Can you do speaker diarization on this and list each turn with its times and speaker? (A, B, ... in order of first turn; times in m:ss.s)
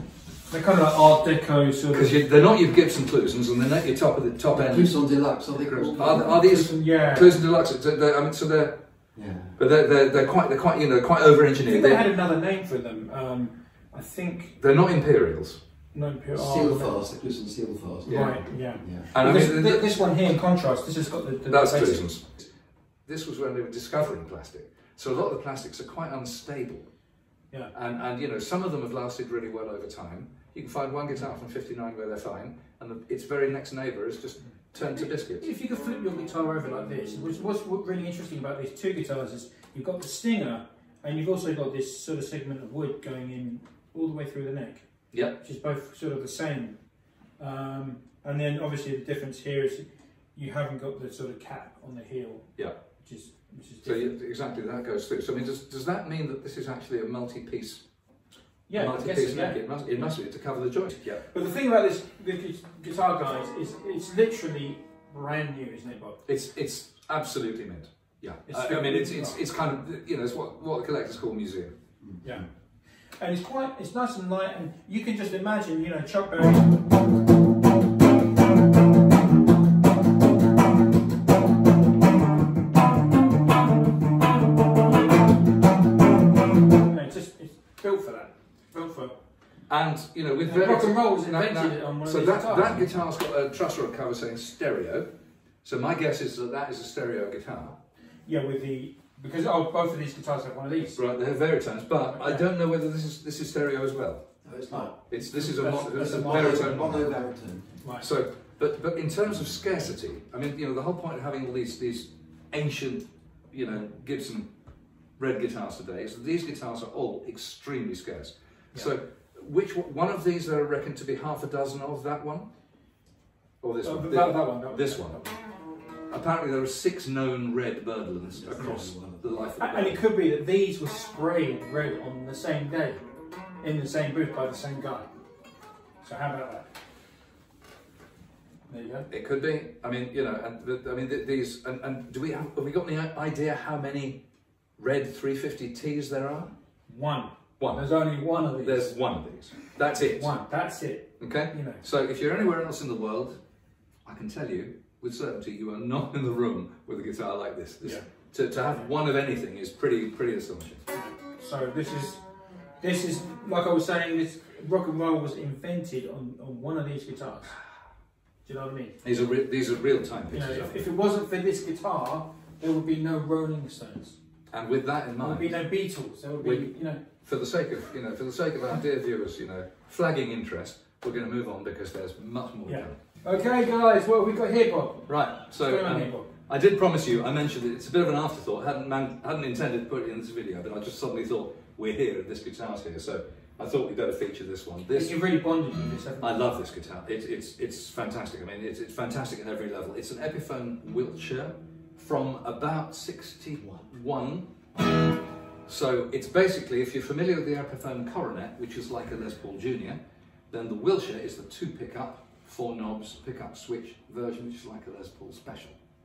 0:00.5-0:02.2 A
0:01.9-0:05.0 B
0:04.5-0:06.4 C
0:05.7-0:08.8 B
0:06.0-0:07.4 A
0:09.1-0:09.6 C
0:09.6-0:12.0 B
0:11.6-0:14.6 A
0:14.6-0:15.6 B
0:15.9-0:16.9 A
0:16.3-0:19.1 C
0:18.0-0:18.4 B
0:18.0-0:22.0 A
0:19.1-0:19.8 B
0:21.5-0:22.4 B
0:23.0-0:26.9 B
0:27.7-0:35.4 B
0:34.9-0:44.9 A
0:45.4-0:46.8 A
0:47.4-0:54.1 A
0:53.8-0:57.8 B
0:58.7-1:00.1 A
0:58.7-1:01.2 B
1:01.2-1:06.2 A
1:06.3-1:11.7 B
1:08.5-1:09.4 A
1:12.0-1:12.3 C
1:13.2-1:16.8 A
1:26.8-1:29.1 A
1:29.7-1:35.1 B
1:30.4-1:32.9 A
1:35.6-1:37.8 B
1:38.2-1:41.0 A
1:40.9-1:44.3 B
1:42.1-1:42.4 A
1:44.4-1:44.9 C
1:44.7-1:46.9 A
1:45.1-1:47.1 B
1:45.9-1:47.7 C
1:47.8-1:48.1 A
1:48.0-1:54.5 B
1:55.2-2:02.5 B
2:03.6-2:05.3 B
2:03.8-2:05.2 A
2:06.1-2:10.0 B
2:08.3-2:09.4 C
2:09.6-2:13.0 A
2:13.6-2:15.1 A
2:16.0-2:16.7 A
2:18.7-2:19.1 A
2:19.1-2:24.2 B
2:24.8-2:26.5 B
2:26.9-2:28.9 A
2:27.6-2:27.8 B
2:28.6-2:30.3 B
2:30.0-2:31.8 A
2:31.2-2:33.4 B
2:34.0-2:40.8 B
2:40.9-2:42.2 A
2:42.8-2:47.6 A
2:48.4-2:49.0 A
2:49.0-2:50.9 B
2:50.3-2:54.2 A
2:54.5-2:55.6 B
2:55.2-2:57.0 A
2:56.4-3:03.0 B
3:02.6-3:06.3 A
3:05.1-3:15.2 B
3:14.9-3:16.4 A
3:16.2-3:24.4 B
3:25.6-3:30.0 B
3:30.5-3:35.8 B